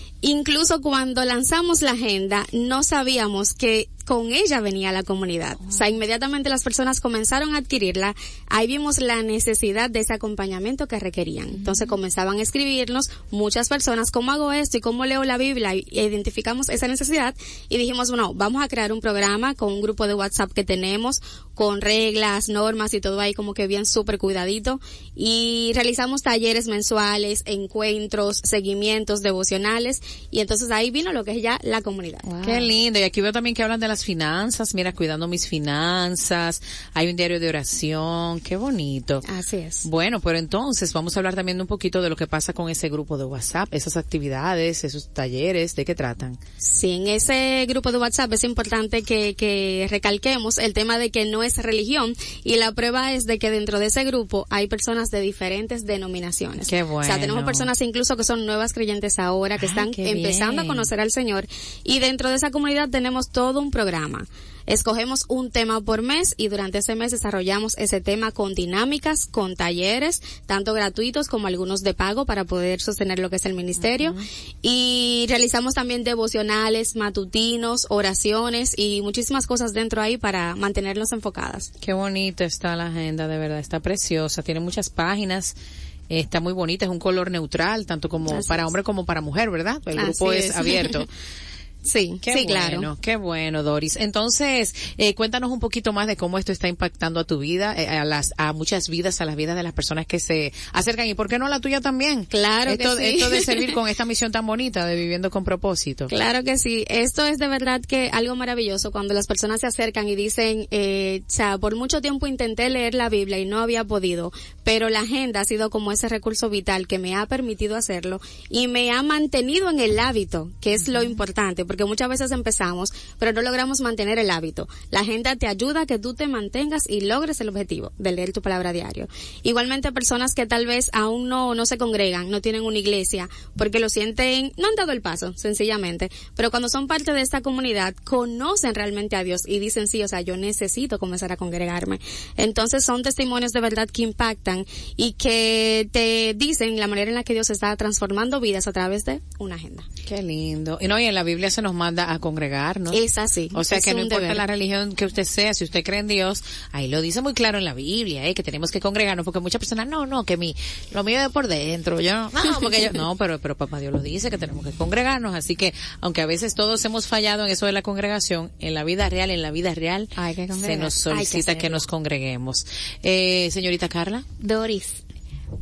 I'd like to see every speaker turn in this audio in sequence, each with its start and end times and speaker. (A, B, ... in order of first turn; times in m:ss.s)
0:00.2-0:32.6 A
0:11.5-0:12.0 B
0:32.4-0:39.2 C
0:39.3-0:39.8 A
0:39.8-0:46.4 C
0:46.6-1:21.7 A
0:56.6-0:57.7 C
0:59.6-1:00.9 C
1:13.8-1:14.2 C
1:21.8-1:25.5 C
1:26.1-1:31.1 C
1:28.3-1:28.7 A
1:30.0-1:31.0 A
1:31.8-1:32.9 A
1:32.2-1:46.1 C
1:42.3-1:43.7 A
1:46.1-2:29.8 A
2:00.9-2:01.2 B
2:30.0-2:33.0 C
2:32.9-2:34.4 A
2:33.5-2:54.2 C
2:50.2-2:51.0 B
2:51.1-2:51.7 A
2:54.4-2:55.0 B